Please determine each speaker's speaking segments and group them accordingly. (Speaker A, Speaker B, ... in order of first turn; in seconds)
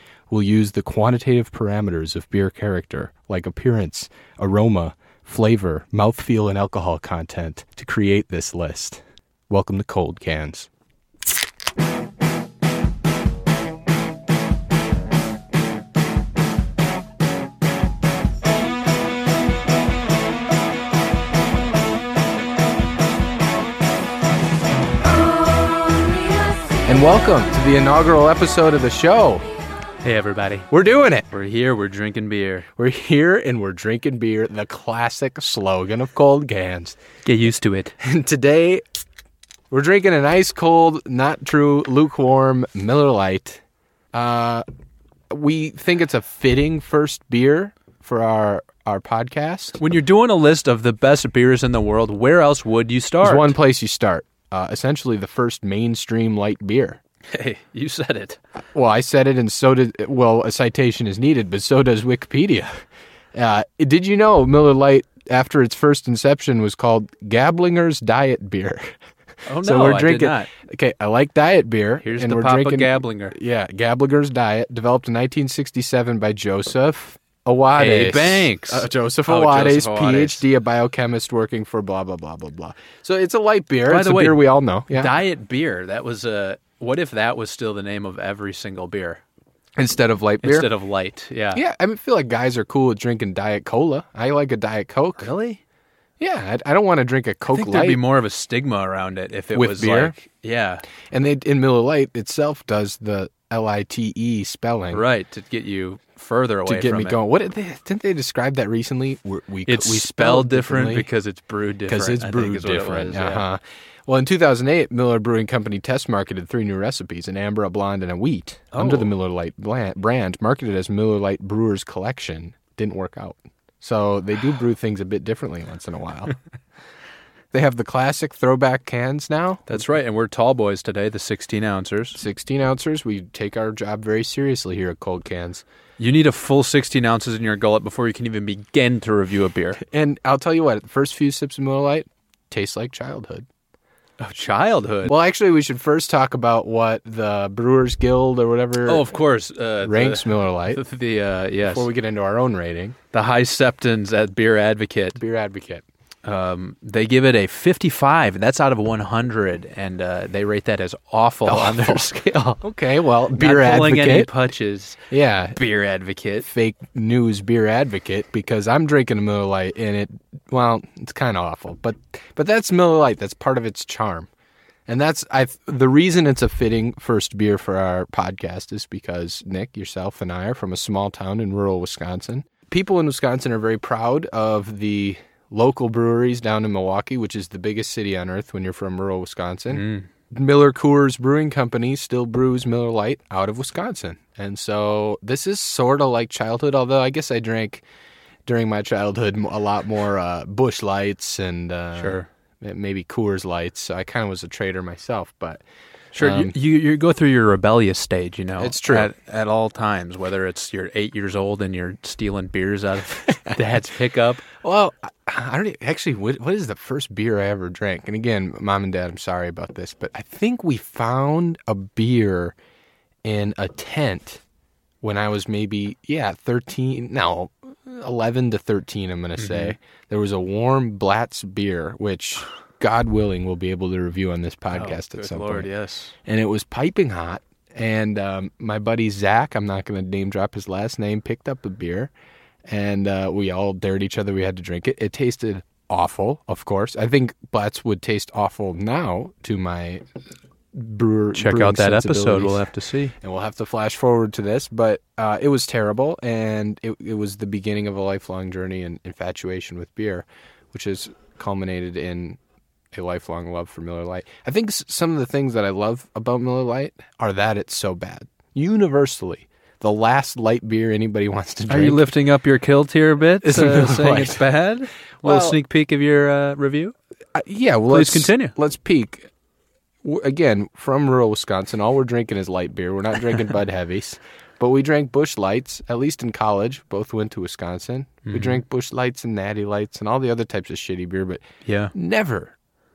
Speaker A: 0.3-10.7, 26.9-29.4, 30.7-31.3, 32.8-37.0, 38.0-38.8, 39.7-43.6, 44.1-44.6, 45.3-49.8, 53.2-57.0, 58.7-62.8, 63.3-69.0, 69.6-85.1, 89.8-90.7, 91.5-95.3, 96.2-98.0, 99.5-100.2, 101.1-105.0, 106.6-111.1, 111.9-126.3, 127.5-129.8, 132.2-135.6, 139.8-143.4, 145.0-149.1, 149.8-150.8, 151.6-153.0, 155.2-155.8, 161.5-162.1, 162.6-164.3, 165.1-165.6, 166.4-174.3, 174.9-197.8, 198.4-205.6, 206.2-206.5, 208.6-209.1, 214.5-222.6, 223.2-224.4, 225.0-235.7, 236.2-242.1, 242.7-250.0, 250.7-252.7, 253.2-262.4, 262.9-272.0, 273.4-274.4, 275.2-275.6, 277.4-279.3, 280.0-291.4, 291.9-292.5
Speaker B: 30.0-30.7, 31.3-32.7, 37.3-38.0, 49.8-53.5, 57.3-58.4, 69.5-70.5, 72.0-73.3, 77.8-80.4, 83.9-89.2, 90.4-91.6, 95.2-95.6, 97.5-100.8, 104.9-107.2, 109.7-113.5, 118.7-119.1, 129.7-132.2, 136.0-139.8, 144.2-145.1, 148.8-151.9, 153.1-155.2, 156.2-162.6, 163.3-165.0, 165.5-166.5, 189.7-190.1, 202.0-202.3, 206.1-214.4, 229.4-229.7, 234.7-236.1, 251.3-253.1, 271.7-276.9, 277.9-278.6, 288.3-288.6, 291.6-291.9